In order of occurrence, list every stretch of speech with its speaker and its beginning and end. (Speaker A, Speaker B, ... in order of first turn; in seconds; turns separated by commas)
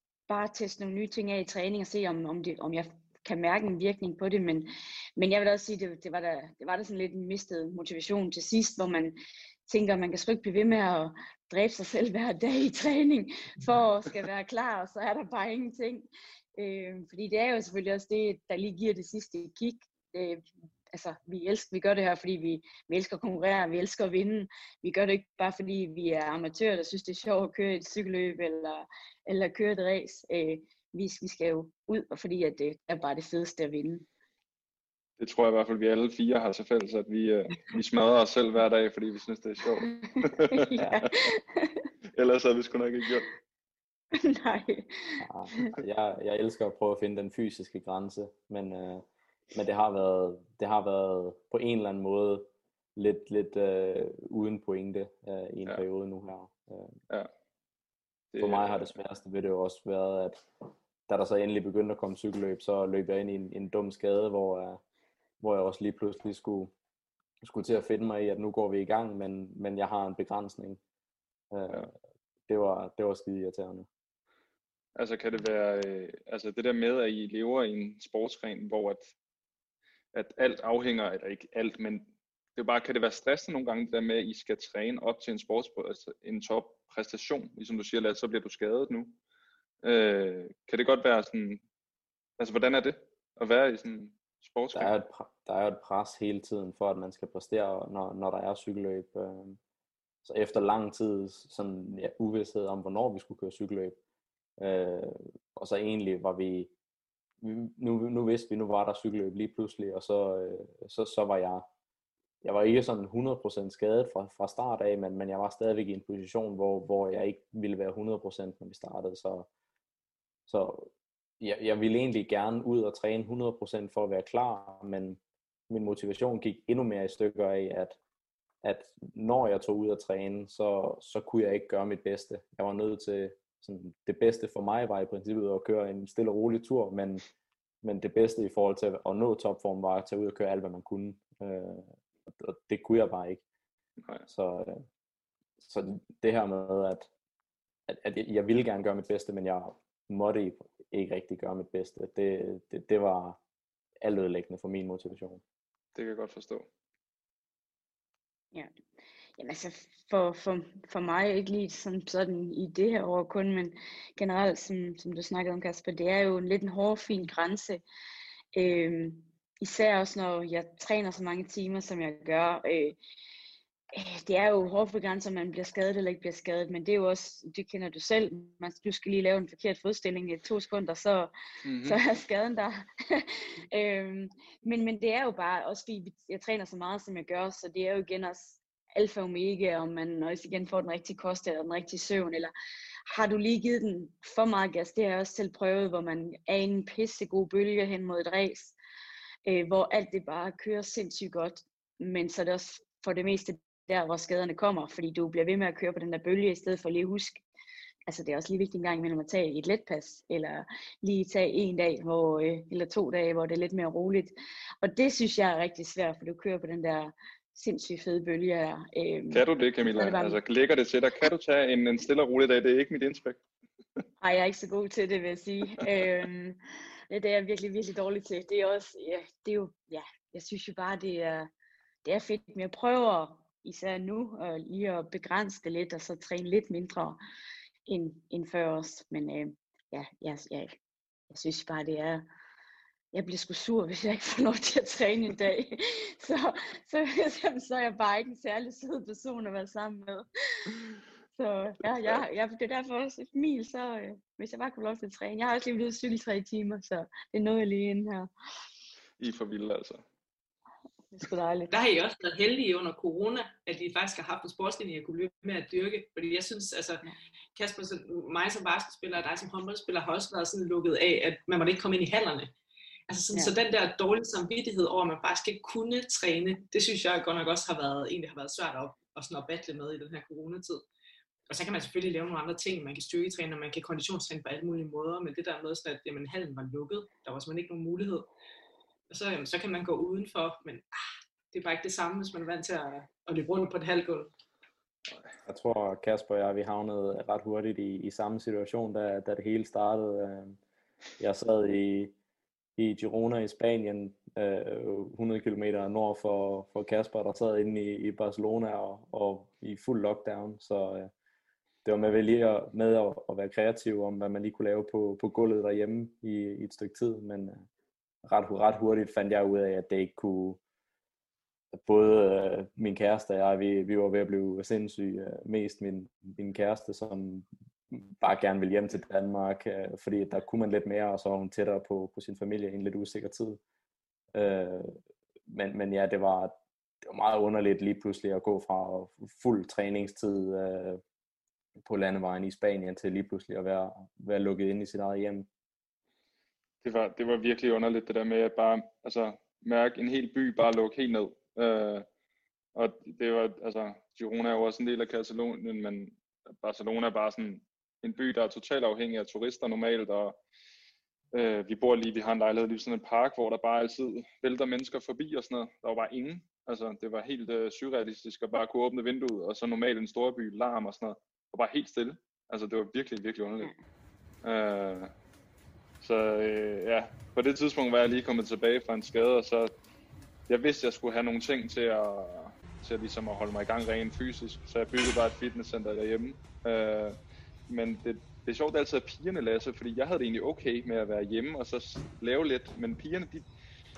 Speaker A: 0.3-34.0, Speaker B: 35.2-40.8, Speaker A: 40.3-41.9, Speaker C: 40.8-41.1, Speaker B: 42.1-43.3, Speaker A: 44.1-45.7, Speaker C: 45.2-57.0, Speaker B: 58.3-58.9, Speaker C: 58.4-60.4, Speaker C: 61.1-64.8, Speaker C: 65.4-66.7, Speaker C: 67.4-70.8, Speaker C: 71.5-71.9, Speaker C: 72.5-73.9, Speaker B: 75.0-79.1, Speaker B: 80.1-89.2, Speaker B: 89.8-91.6, Speaker B: 92.4-94.9, Speaker C: 94.7-99.6, Speaker C: 100.2-104.0, Speaker C: 104.6-106.7, Speaker C: 107.4-111.7, Speaker C: 112.4-119.5, Speaker C: 120.5-128.0, Speaker C: 128.6-137.2, Speaker C: 137.8-143.4, Speaker C: 144.3-144.8, Speaker C: 145.6-147.1, Speaker C: 147.9-153.4, Speaker C: 154.0-155.4, Speaker B: 155.9-156.7, Speaker A: 159.4-167.8, Speaker A: 168.5-173.0, Speaker A: 173.9-181.3, Speaker B: 181.6-182.0, Speaker A: 181.8-192.5, Speaker A: 193.1-198.7, Speaker A: 199.4-207.4, Speaker A: 208.1-220.4, Speaker B: 219.3-223.4, Speaker A: 224.2-226.6, Speaker A: 227.1-231.5, Speaker A: 232.0-237.2, Speaker A: 237.9-240.8, Speaker A: 241.3-242.2, Speaker A: 243.1-250.7, Speaker A: 251.3-258.3, Speaker B: 259.2-260.0, Speaker A: 261.1-261.7, Speaker D: 261.7-267.0, Speaker D: 267.6-272.5, Speaker D: 273.1-280.8, Speaker D: 281.5-288.3, Speaker D: 289.1-290.9, Speaker D: 291.5-294.3, Speaker C: 295.4-300.6, Speaker C: 301.2-302.1, Speaker C: 302.8-311.1, Speaker C: 311.8-317.6, Speaker C: 318.2-320.6, Speaker C: 321.7-333.6, Speaker C: 334.3-341.0, Speaker C: 341.8-345.5, Speaker B: 346.8-352.1, Speaker B: 352.7-360.4, Speaker B: 361.3-373.7, Speaker B: 374.4-375.1, Speaker B: 376.0-379.7, Speaker B: 380.5-387.2, Speaker B: 387.7-393.4